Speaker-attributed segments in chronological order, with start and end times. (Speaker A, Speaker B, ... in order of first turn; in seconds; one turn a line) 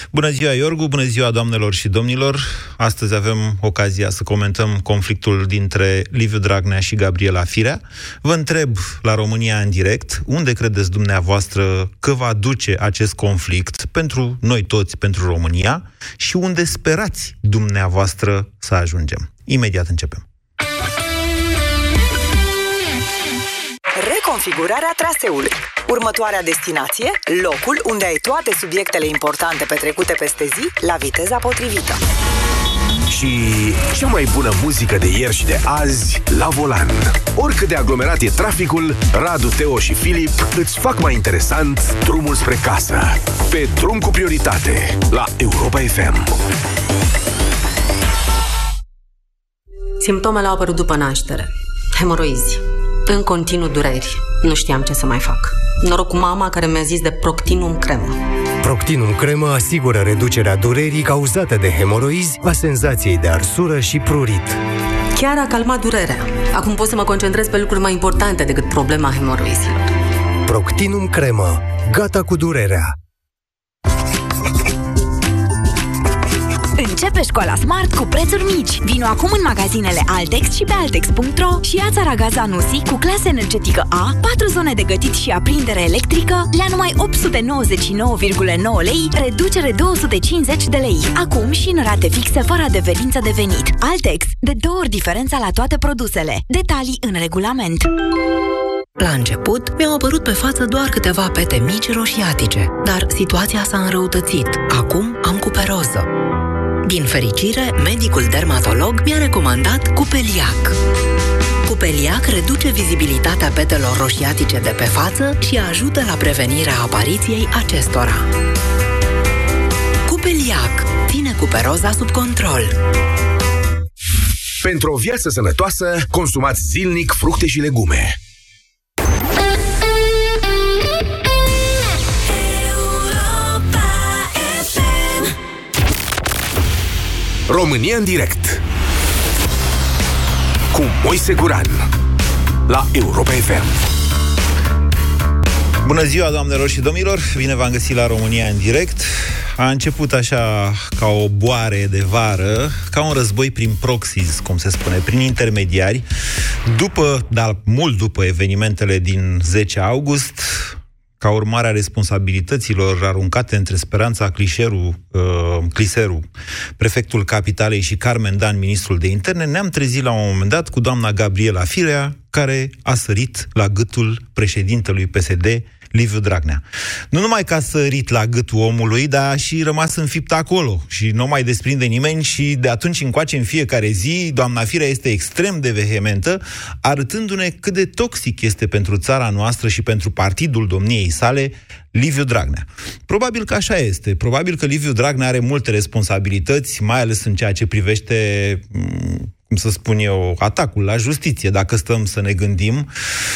Speaker A: 0.1-20.2
Speaker B: 23.9-32.0
Speaker C: 33.1-46.4
Speaker D: 50.0-58.2
Speaker E: 58.6-64.6
Speaker D: 65.1-69.8
Speaker E: 70.5-73.0
Speaker F: 76.8-97.9
Speaker G: 99.0-106.1
Speaker G: 106.8-110.8
Speaker G: 111.6-118.3
Speaker G: 120.0-122.7
Speaker C: 124.6-128.2
Speaker C: 137.5-138.6
Speaker C: 140.7-141.8
Speaker C: 142.7-143.7
Speaker A: 145.8-156.0
Speaker A: 156.6-166.3
Speaker A: 166.8-202.9